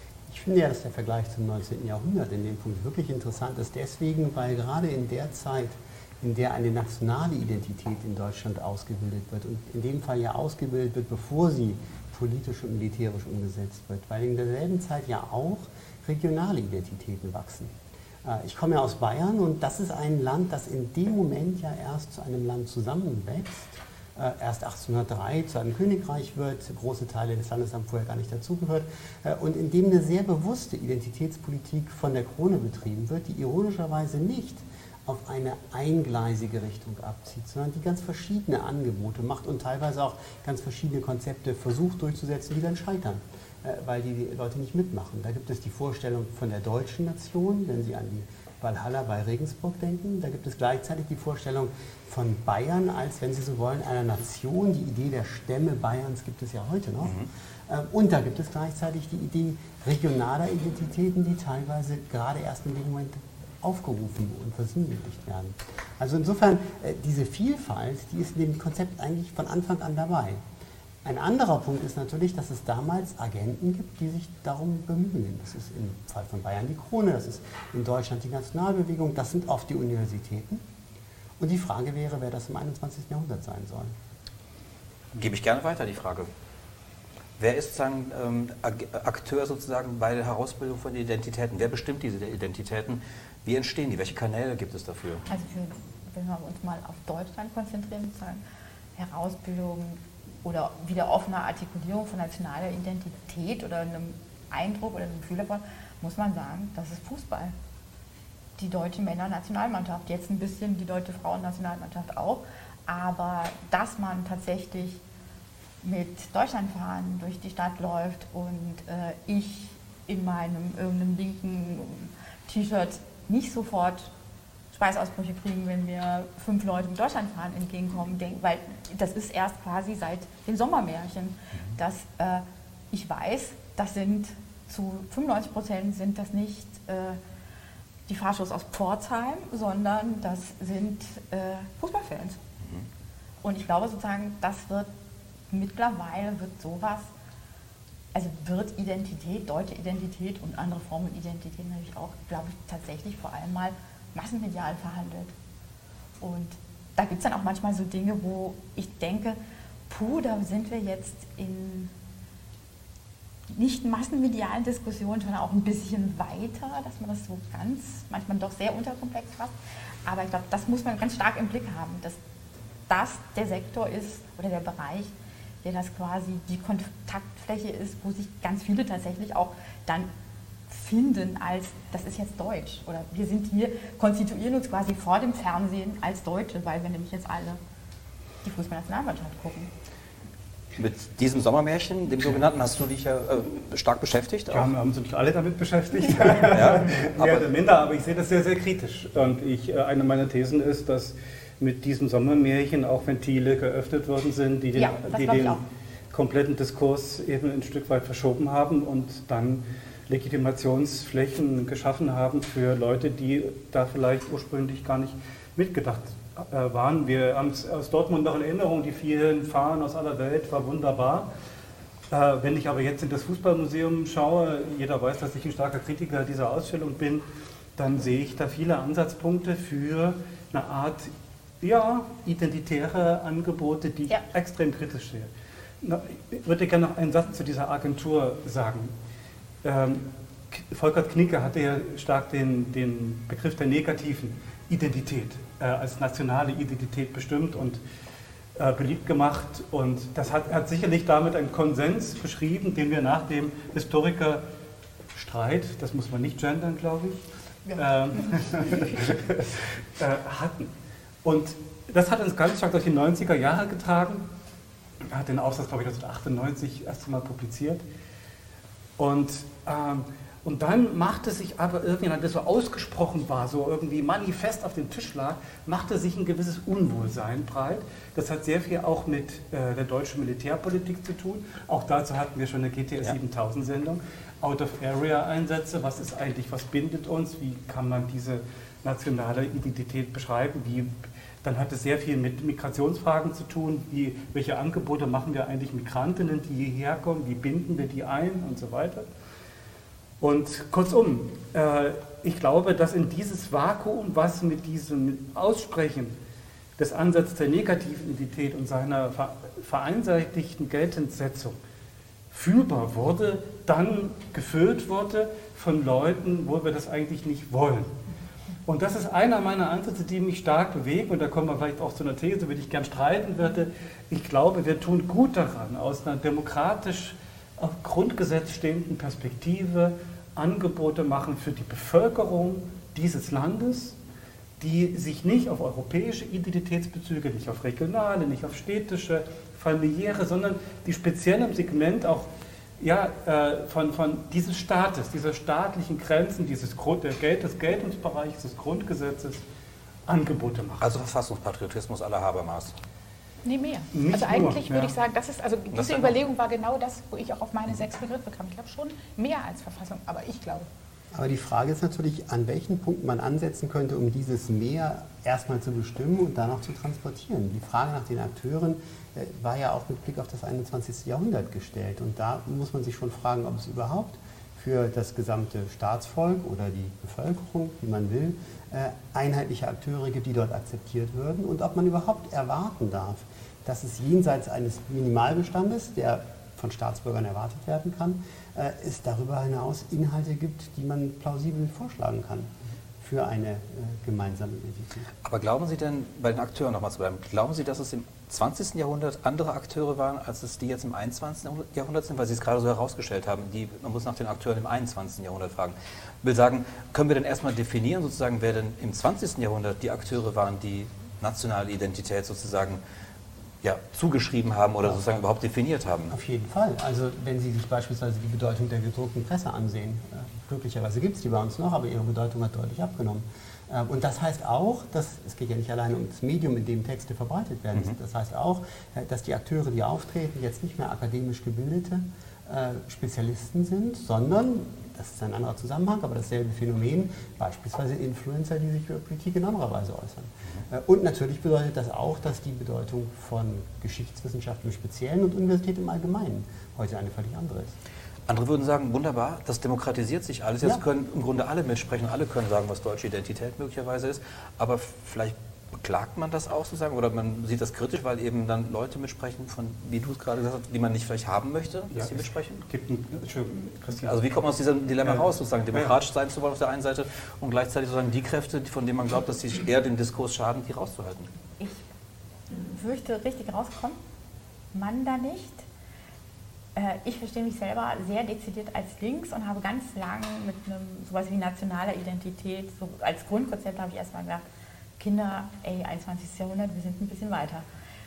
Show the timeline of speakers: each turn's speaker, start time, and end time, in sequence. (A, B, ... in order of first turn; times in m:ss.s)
0:00.3-1:10.4 A
1:11.0-1:20.6 A
1:21.4-1:23.9 A
1:25.2-1:26.3 B
1:27.4-1:35.3 B
1:35.3-1:38.4 C
1:39.0-1:47.5 C
1:48.6-1:55.0 C
1:55.8-2:04.1 C
2:04.7-2:17.2 C
2:18.1-2:22.4 C
2:22.6-2:22.9 B
2:23.4-2:24.9 C
2:25.5-2:27.1 C
2:28.1-2:35.3 C
2:36.2-2:39.4 C
2:39.9-2:41.9 C
2:43.5-2:49.5 C
2:50.1-2:52.2 C
2:52.9-2:55.1 C
2:55.6-3:00.1 C
3:00.7-3:07.6 C
3:08.4-3:09.7 C
3:10.8-3:14.7 B
3:14.5-3:41.3 D
3:16.4-3:17.5 B
3:24.8-3:25.6 C
3:42.1-3:47.2 D
3:47.8-3:55.3 D
3:55.8-3:58.9 D
3:59.6-4:07.8 D
4:08.6-4:14.4 D
4:15.2-4:20.7 D
4:21.2-4:24.3 D
4:25.0-4:27.8 D
4:29.0-4:59.1 D
5:00.2-5:06.2 D
5:06.8-5:11.6 D
5:12.3-5:18.0 D
5:18.7-5:34.0 D
5:34.6-5:49.4 D
5:50.1-5:50.9 D
5:50.8-5:52.8 B
5:53.4-6:00.7 E
5:53.9-5:55.0 D
5:55.7-5:56.2 B
6:01.1-6:35.1 A
6:35.2-6:52.8 B
6:53.6-6:56.1 B
6:56.1-7:27.7 A
7:28.3-7:42.6 B
7:41.9-7:44.2 D
7:44.0-7:51.3 B
7:45.0-7:46.0 D
7:52.5-7:54.0 C
7:54.7-7:55.6 C
7:56.8-8:04.4 C
8:05.0-8:07.6 C